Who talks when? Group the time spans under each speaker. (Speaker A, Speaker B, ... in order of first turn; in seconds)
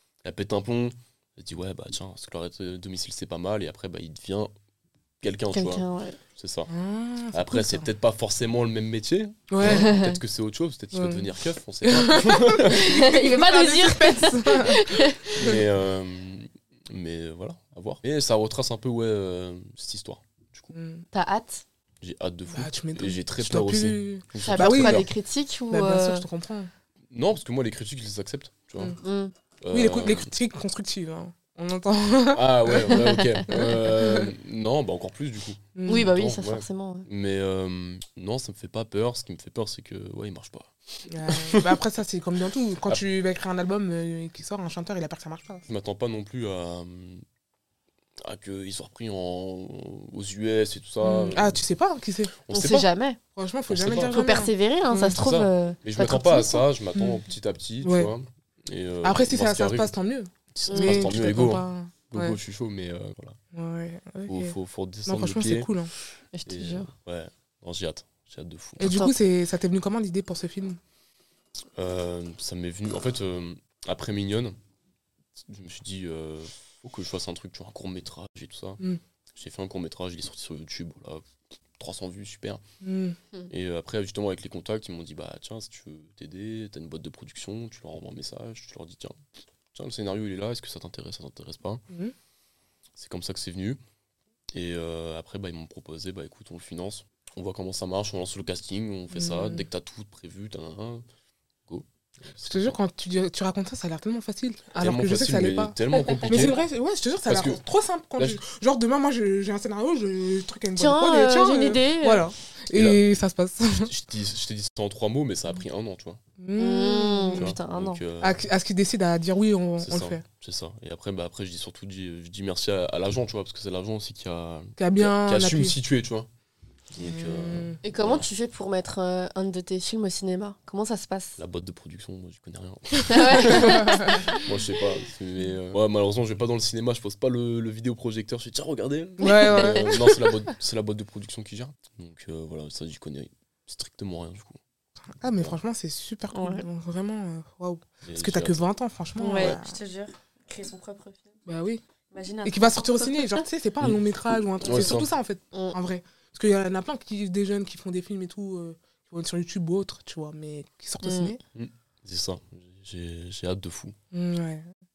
Speaker A: 0.2-4.5, 5.2-5.8, 6.4-6.7, 7.3-12.9, 15.3-20.7, 22.0-25.1, 27.1-29.0, 29.6-30.3, 32.3-41.8, 45.7-47.2, 48.2-51.6, 52.5-52.9, 53.7-54.3, 55.1-59.9, 60.5-63.4, 64.3-65.7, 66.5-69.0, 71.8-74.6, 75.4-78.8, 79.3-81.2, 81.8-82.6, 83.5-89.2, 89.7-91.8, 93.0-93.8, 94.5-101.0, 101.7-102.8, 104.8-106.6, 107.3-107.6, 112.7-113.0, 113.7-116.2, 117.3-118.4, 119.8-126.3, 126.9-128.3, 131.4-144.6, 148.1-148.7, 154.6-155.1, 161.6-164.0
Speaker B: 5.5-6.2, 9.6-10.2, 12.6-15.4, 21.1-21.6, 24.4-26.2, 29.0-29.3, 32.8-33.5, 35.9-37.1, 52.5-53.2, 54.1-56.6, 60.7-61.1, 66.3-66.9, 68.8-69.1, 110.8-112.3, 116.6-118.0, 127.8-131.4, 133.1-134.5, 139.2-139.9, 146.3-146.7, 149.2-151.3, 152.1-153.4, 161.0-161.3
Speaker C: 6.7-7.9, 9.5-9.9, 10.9-11.3, 11.8-15.6, 20.7-21.1, 22.5-25.1, 25.7-26.7, 29.7-34.3, 35.8-36.1, 41.1-45.7, 51.0-52.4, 53.4-55.2, 57.0-57.2, 57.8-58.1, 59.0-62.4, 63.5-65.9, 68.8-70.8, 82.8-83.2, 99.1-99.7, 102.5-113.9, 116.4-117.5, 118.2-120.2, 124.8-125.8, 127.0-127.8, 133.4-134.2, 139.2-140.4, 145.2-149.8, 151.5-151.8, 152.4-161.4, 164.1-164.7